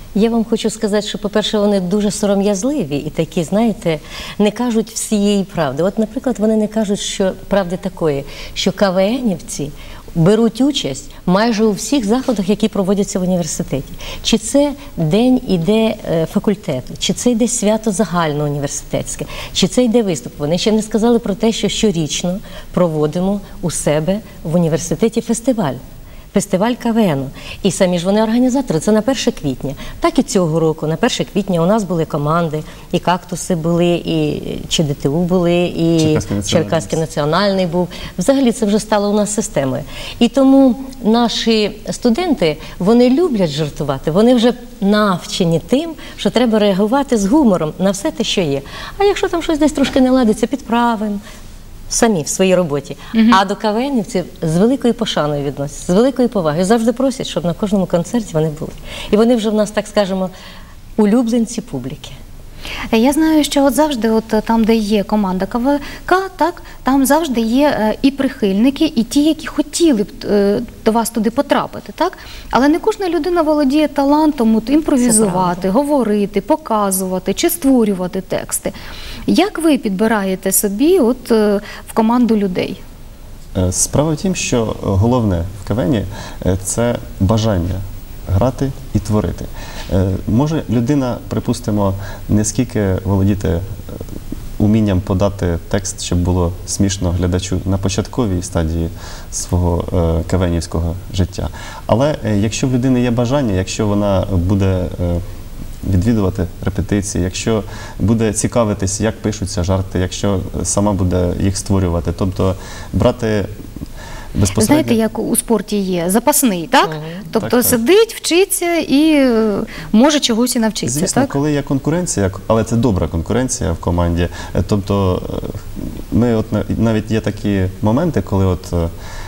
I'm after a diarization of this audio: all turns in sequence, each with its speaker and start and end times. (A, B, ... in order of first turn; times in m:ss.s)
0:00.1-0:25.8 A
0:26.3-0:51.2 A
0:36.0-0:37.0 B
0:51.9-1:00.3 A
0:53.1-0:53.4 C
1:01.0-1:02.2 A
1:02.9-1:18.7 C
1:15.0-1:15.6 A
1:19.3-1:22.8 C
1:23.5-1:33.6 B
1:34.6-1:45.2 B
1:45.8-1:53.5 B
1:54.3-1:55.0 B
1:54.6-2:01.3 C
1:56.9-1:57.2 A
1:57.4-1:57.8 B
2:00.8-2:08.9 B